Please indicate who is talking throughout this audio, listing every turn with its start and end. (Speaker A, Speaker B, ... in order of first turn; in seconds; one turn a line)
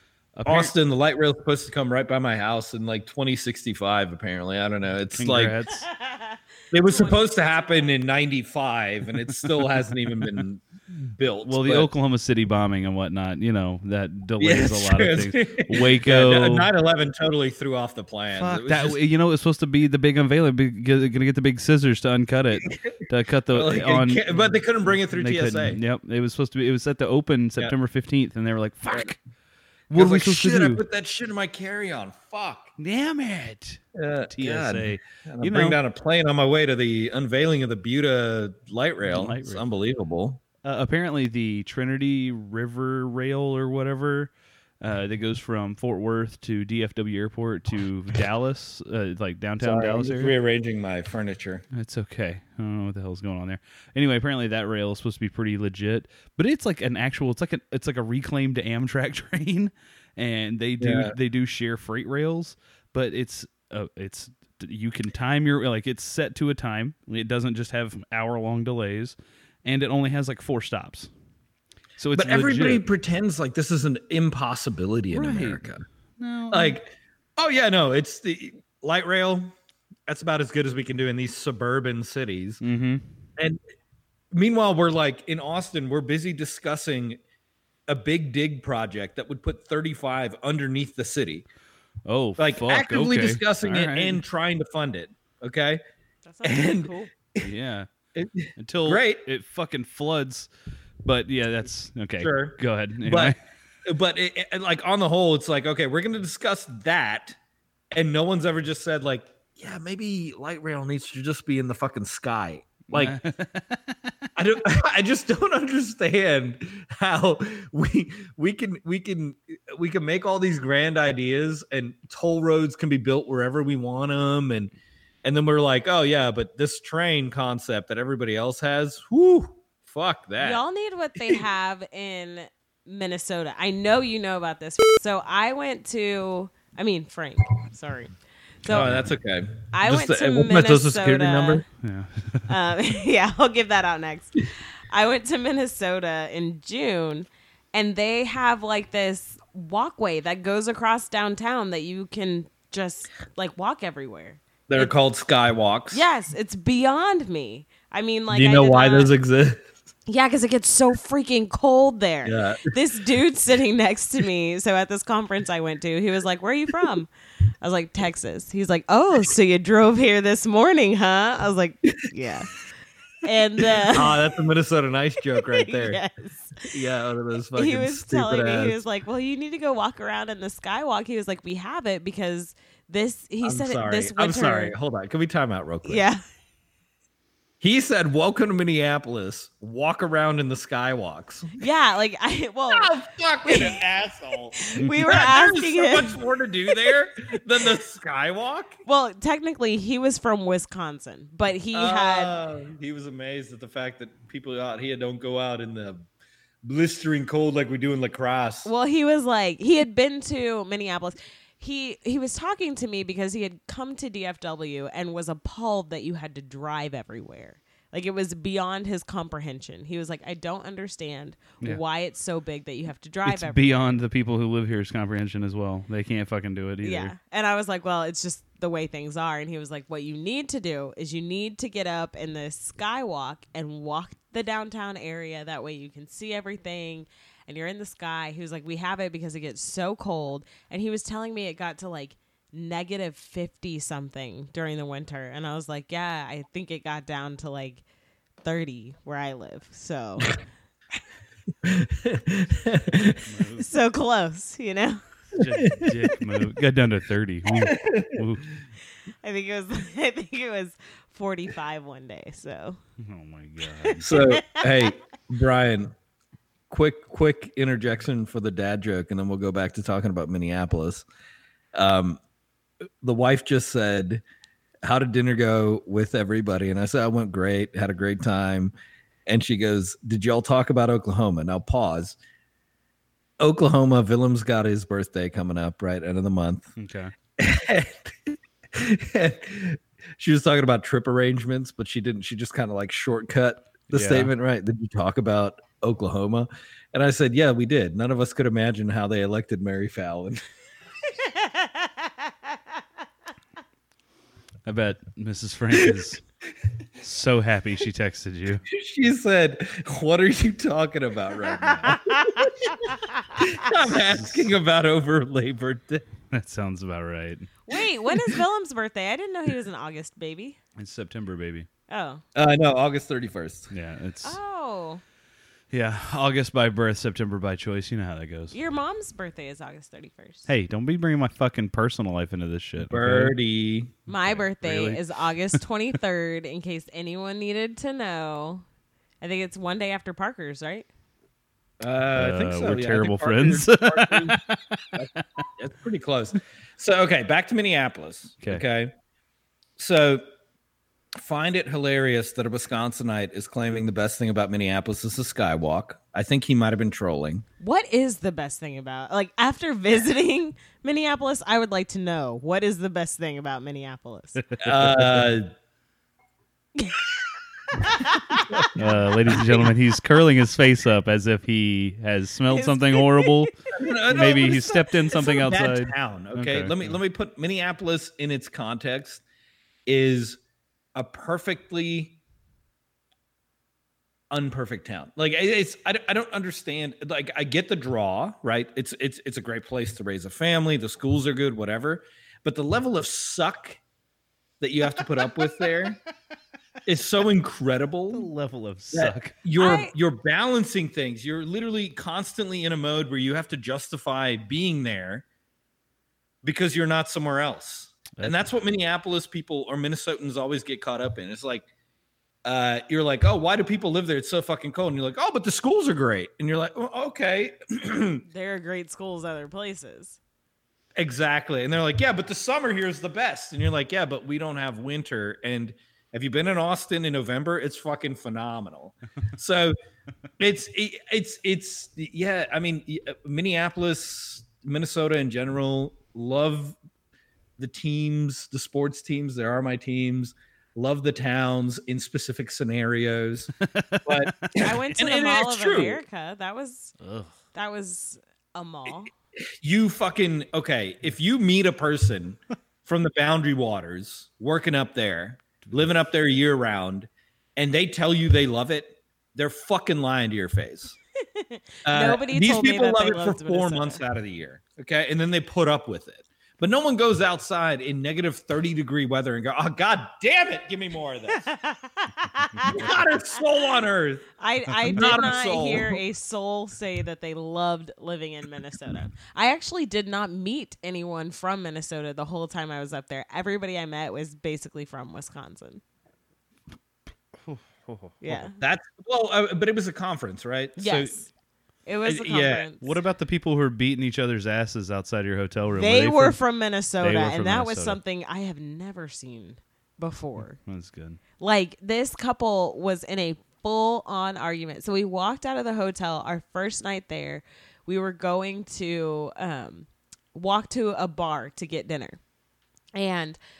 Speaker A: 0.3-0.7
Speaker B: 0.5-5.6
Speaker A: 5.2-5.9
Speaker C: 5.9-7.9
Speaker B: 6.7-10.6
Speaker B: 11.1-11.9
Speaker A: 11.4-16.7
Speaker B: 14.4-19.0
Speaker A: 18.3-24.5
Speaker B: 22.7-23.0
Speaker B: 23.5-25.8
Speaker A: 25.1-29.2
Speaker A: 29.9-30.8
Speaker B: 29.9-32.7
Speaker A: 32.8-35.8
Speaker B: 33.9-40.4
Speaker A: 39.1-39.6
Speaker A: 40.6-50.3
Speaker B: 49.6-51.6
Speaker A: 51.7-71.1
Speaker B: 60.8-61.1
Speaker A: 72.0-72.8
Speaker B: 72.1-75.8
Speaker A: 75.1-75.6
Speaker A: 76.2-76.8
Speaker B: 76.5-79.5
Speaker B: 80.1-82.6
Speaker A: 82.6-83.0
Speaker B: 83.4-83.6
Speaker B: 84.3-87.2
Speaker B: 87.9-91.4
Speaker A: 92.0-94.2
Speaker B: 92.4-95.8
Speaker C: 96.2-97.1
Speaker B: 96.4-97.5
Speaker A: 97.4-97.9
Speaker B: 98.1-99.2
Speaker A: 98.6-100.5
Speaker A: 101.0-103.4
Speaker B: 102.2-107.4
Speaker B: 107.9-113.2
Speaker A: 112.9-114.1
Speaker B: 114.3-124.7
Speaker B: 125.2-130.6
Speaker C: 130.4-139.0
Speaker B: 138.7-141.6
Speaker A: 138.7-139.0
Speaker C: 139.7-141.6
Speaker A: 141.8-142.5
Speaker C: 142.5-154.9
Speaker B: 154.7-156.1
Speaker C: 155.9-159.1
Speaker B: 158.3-159.6
Speaker C: 160.1-167.1
Speaker B: 162.2-162.7
Speaker C: 167.6-172.5
Speaker C: 173.2-174.3
Speaker B: 173.6-176.0
Speaker C: 175.4-176.8
Speaker B: 176.6-178.8
Speaker C: 177.5-184.7
Speaker B: 183.4-186.1
Speaker C: 185.8-186.2
Speaker B: 187.6-191.6
Speaker C: 191.6-192.9
Speaker B: 192.7-198.8
Speaker C: 193.4-193.8
Speaker C: 194.6-196.2
Speaker C: 198.8-202.4
Speaker B: 201.7-206.1
Speaker B: 206.6-208.7
Speaker C: 208.6-223.9
Speaker A: 223.2-227.1
Speaker C: 226.8-247.8
Speaker C: 248.4-250.4
Speaker B: 251.6-253.2
Speaker A: 253.2-253.7
Speaker C: 253.6-255.0
Speaker A: 255.3-258.6
Speaker B: 255.6-256.0
Speaker B: 257.5-258.2
Speaker C: 259.2-262.8
Speaker A: 263.0-264.1
Speaker C: 263.8-264.9
Speaker B: 264.0-265.9
Speaker B: 266.7-271.1
Speaker B: 271.7-272.2
Speaker B: 273.0-274.2
Speaker B: 274.8-278.7
Speaker B: 279.2-282.2
Speaker B: 283.4-286.7
Speaker A: 286.8-287.1
Speaker B: 287.4-300.4
Speaker A: 293.9-294.3
Speaker C: 301.1-302.6
Speaker A: 304.6-306.2
Speaker A: 307.0-308.6
Speaker B: 308.7-316.0
Speaker C: 311.8-313.6
Speaker A: 314.1-314.5
Speaker A: 316.3-317.5
Speaker C: 317.6-320.6
Speaker A: 320.8-321.7
Speaker C: 321.9-322.2
Speaker B: 322.3-323.7
Speaker A: 323.7-324.4
Speaker C: 324.2-325.0
Speaker A: 325.7-328.5
Speaker C: 328.5-330.5
Speaker A: 330.5-333.3
Speaker B: 332.8-333.9
Speaker C: 334.1-338.6
Speaker A: 334.1-335.0
Speaker C: 339.2-340.9
Speaker B: 341.8-344.4
Speaker A: 342.1-345.4
Speaker B: 344.9-348.9
Speaker B: 349.8-350.2
Speaker B: 351.1-357.4
Speaker C: 357.6-364.4
Speaker A: 364.4-365.3
Speaker B: 364.6-365.5
Speaker C: 366.8-367.0
Speaker C: 367.7-368.8
Speaker B: 368.5-369.7
Speaker A: 368.8-377.0
Speaker C: 372.5-373.5
Speaker B: 373.7-379.2
Speaker B: 379.9-380.4
Speaker B: 380.9-382.2
Speaker B: 384.3-393.8
Speaker B: 394.6-396.0
Speaker B: 396.8-398.3
Speaker A: 398.1-399.3
Speaker B: 398.9-405.2
Speaker C: 399.6-399.9
Speaker B: 406.4-411.6
Speaker A: 408.1-408.4
Speaker B: 412.4-418.2
Speaker C: 418.2-420.2
Speaker B: 421.0-429.7
Speaker B: 430.4-436.8
Speaker B: 437.6-443.5
Speaker A: 443.6-444.6
Speaker B: 444.0-446.0
Speaker C: 444.6-446.9
Speaker A: 447.0-447.3
Speaker C: 447.5-449.1
Speaker B: 449.4-461.0
Speaker C: 461.3-464.0
Speaker B: 461.9-471.5
Speaker C: 471.3-473.1
Speaker B: 472.7-474.3
Speaker C: 474.4-485.8
Speaker A: 474.7-475.2
Speaker B: 474.9-476.0
Speaker A: 487.5-488.4
Speaker C: 488.2-488.5
Speaker B: 488.6-491.1
Speaker C: 490.8-491.3
Speaker C: 491.9-493.0
Speaker B: 492.0-492.6
Speaker A: 492.8-496.4
Speaker C: 495.8-500.6
Speaker A: 497.0-498.0
Speaker A: 500.4-501.2
Speaker C: 501.4-512.2
Speaker C: 512.9-513.4